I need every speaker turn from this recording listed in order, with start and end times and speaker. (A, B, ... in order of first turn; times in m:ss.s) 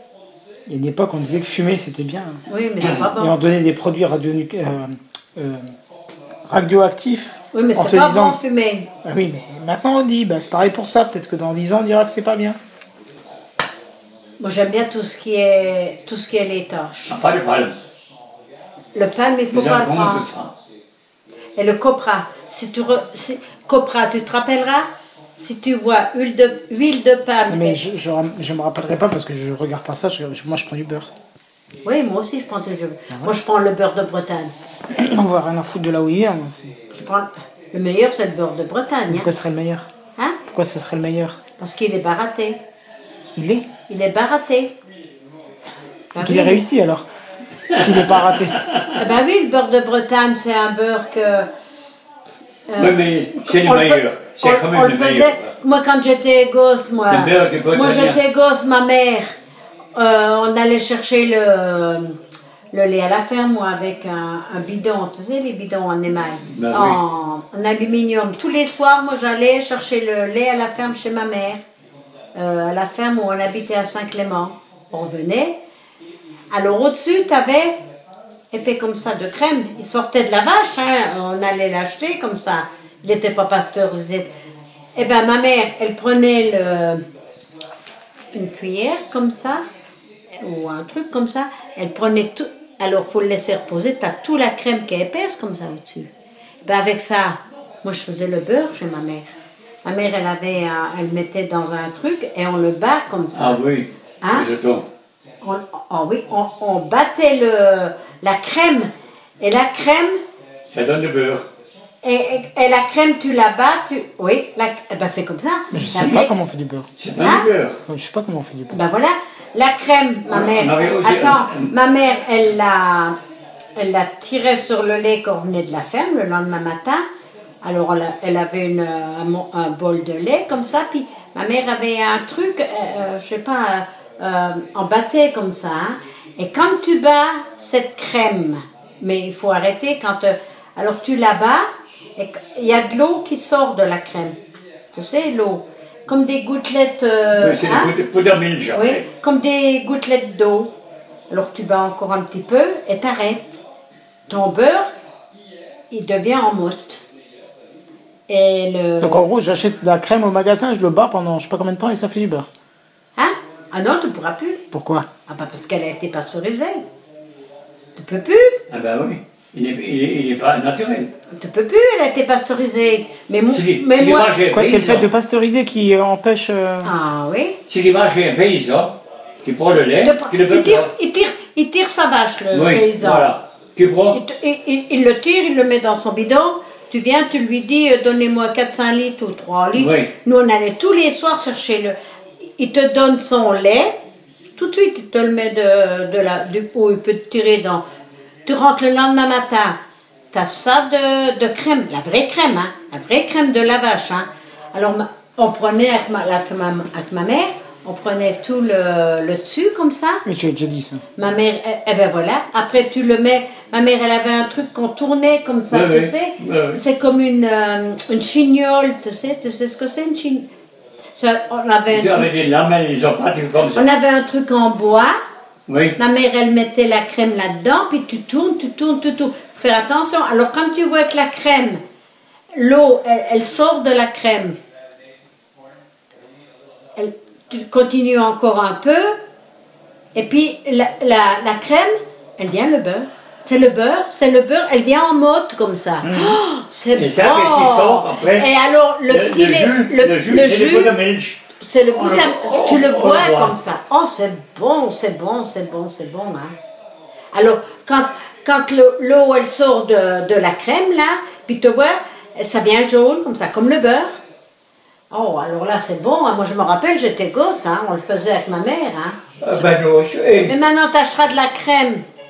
0:00.7-0:05.7 A
0:02.5-0:03.4 B
0:06.5-0:08.4 A
0:07.5-0:08.9 B
0:09.0-0:12.6 A
0:14.4-0:17.2 B
0:17.1-0:17.7 C
0:18.9-0:20.3 B
0:19.5-0:20.5 C
0:21.6-0:24.9 B
0:25.4-0:27.8 B
0:27.5-0:31.1 A
0:31.8-0:34.5 B
0:34.9-0:36.8 A
0:36.9-0:39.3 B
0:39.1-0:39.9 A
0:40.5-0:41.4 A
0:41.6-0:42.6 B
0:43.4-0:43.7 A
0:43.9-0:44.7 B
0:46.1-0:46.6 B
0:46.1-0:47.1 A
0:47.7-0:48.6 A
0:47.8-0:48.9 C
0:49.0-0:51.5 B
0:52.7-0:59.4 B
0:52.8-0:55.5 C
0:57.1-0:58.2 C
1:00.0-1:02.2 B
1:02.7-1:11.6 B
1:06.5-1:07.0 C
1:12.4-1:15.6 B
1:16.5-1:17.8 B
1:18.5-1:24.3 B
1:25.0-1:27.0 B
1:28.3-1:29.6 B
1:30.4-1:36.1 B
1:36.6-1:39.3 B
1:39.8-1:43.6 B
1:43.3-1:44.9 C
1:44.2-1:44.5 B
1:45.4-1:50.2 B
1:50.7-1:51.5 C
1:52.0-1:56.3 B
1:55.7-1:56.9 A
1:57.0-1:57.8 C
1:57.2-1:57.5 B
1:57.9-1:58.8 A
1:58.7-2:03.2 B
2:00.3-2:01.7 C
2:03.8-2:07.0 B
2:07.6-2:21.6 B
2:22.2-2:24.4 B
2:24.9-2:27.9 B
2:27.4-2:29.0 C
2:28.7-2:30.7 B
2:31.3-2:33.6 B
2:34.3-2:34.9 B
2:35.9-2:37.0 B
2:38.3-2:39.2 B
2:39.0-2:42.5 A
2:43.2-2:44.6 B
2:44.7-2:45.1 A
2:45.3-2:46.8 B
2:48.0-2:48.6 B
2:48.7-2:51.1 C
2:51.3-2:54.3 B
2:53.5-2:55.1 C
2:54.5-2:56.9 A
2:56.8-2:57.6 B
2:57.7-3:00.9 C
3:00.0-3:03.3 B
3:02.5-3:04.2 C
3:04.1-3:12.0 B
3:09.8-3:10.1 C
3:12.6-3:13.9 B
3:14.6-3:17.8 B
3:18.5-3:19.8 B
3:20.3-3:30.2 B
3:30.3-3:31.0 A
3:31.2-3:40.5 B
3:35.7-3:36.8 C
3:41.2-3:42.3 B
3:41.9-3:43.9 C
3:43.7-3:45.1 B
3:45.7-3:46.0 C
3:46.0-3:51.8 B
3:52.5-3:54.6 B
3:57.0-3:59.2 B
4:00.2-4:11.0 B
4:06.0-4:06.4 A
4:06.9-4:08.5 C
4:09.1-4:13.6 C
4:11.6-4:16.5 B
4:17.3-4:24.2 B
4:25.1-4:29.2 B
4:29.4-4:30.5 C
4:30.4-4:32.0 B